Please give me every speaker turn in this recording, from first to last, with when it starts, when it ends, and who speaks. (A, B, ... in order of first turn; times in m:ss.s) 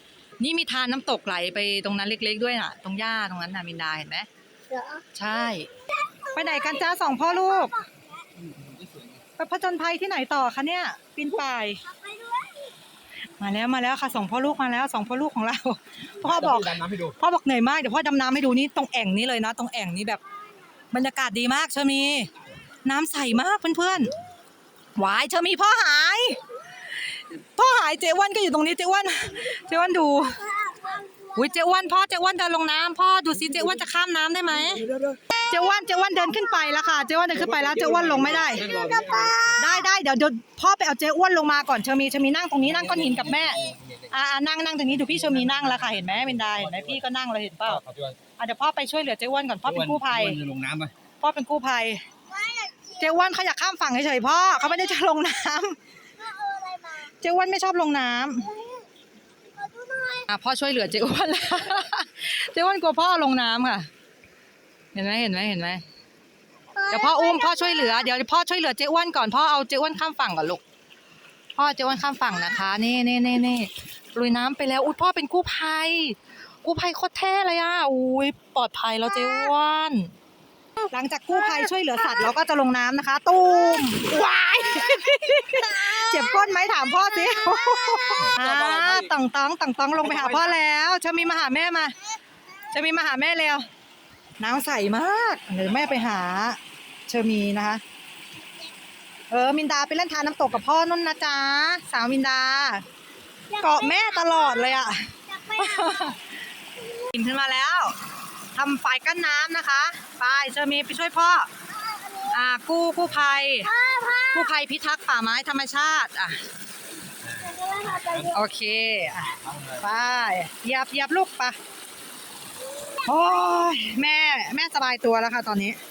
0:00.4-0:04.3 A
0:04.7-0:05.0 B
0:05.1-0:05.7 A
0:05.9-0:08.0 B
0:06.3-0:07.8 A
0:08.4-0:09.2 C
0:09.4-0:11.8 A
0:11.9-0:12.7 B
0:13.4-0:20.2 A
0:16.2-0:17.2 C
0:20.9-0:22.3 A
0:22.8-0:24.2 A
0:25.0-0:26.4 A
0:27.1-0:30.5 A
0:30.6-0:31.3 B
0:31.3-0:38.7 A
0:34.5-0:35.2 C
0:37.3-0:39.6 C
0:38.6-0:39.6 B
0:39.6-0:47.8 A
0:42.6-0:44.1 C
0:45.0-0:47.0 C
0:47.6-0:48.2 C
0:48.4-0:50.4 A
0:49.6-0:50.9 C
0:51.2-0:52.0 A
0:52.3-0:53.2 B
0:53.0-0:55.8 A
0:56.2-0:57.1 B
0:57.2-0:58.5 A
0:58.4-0:58.9 B
0:59.5-1:00.2 B
1:00.3-1:03.9 A
1:04.9-1:05.8 A
1:06.7-1:08.0 B
1:06.9-1:10.6 A
1:11.5-1:20.1 A
1:20.8-1:31.9 A
1:25.0-1:26.3 B
1:27.3-1:28.3 B
1:28.2-1:29.1 C
1:30.0-1:30.5 C
1:32.7-1:33.7 A
1:34.4-1:37.8 A
1:39.3-1:42.8 A
1:43.5-1:44.8 B
1:43.6-1:46.2 A
1:45.3-1:46.2 B
1:46.9-1:48.0 A
1:48.5-1:51.5 A
1:51.8-1:52.3 B
1:52.3-1:53.7 A
1:53.7-1:54.5 B
1:54.3-1:56.4 A
1:57.3-1:58.3 B
1:58.3-2:01.6 A
1:59.5-1:59.8 C
2:03.0-2:05.8 A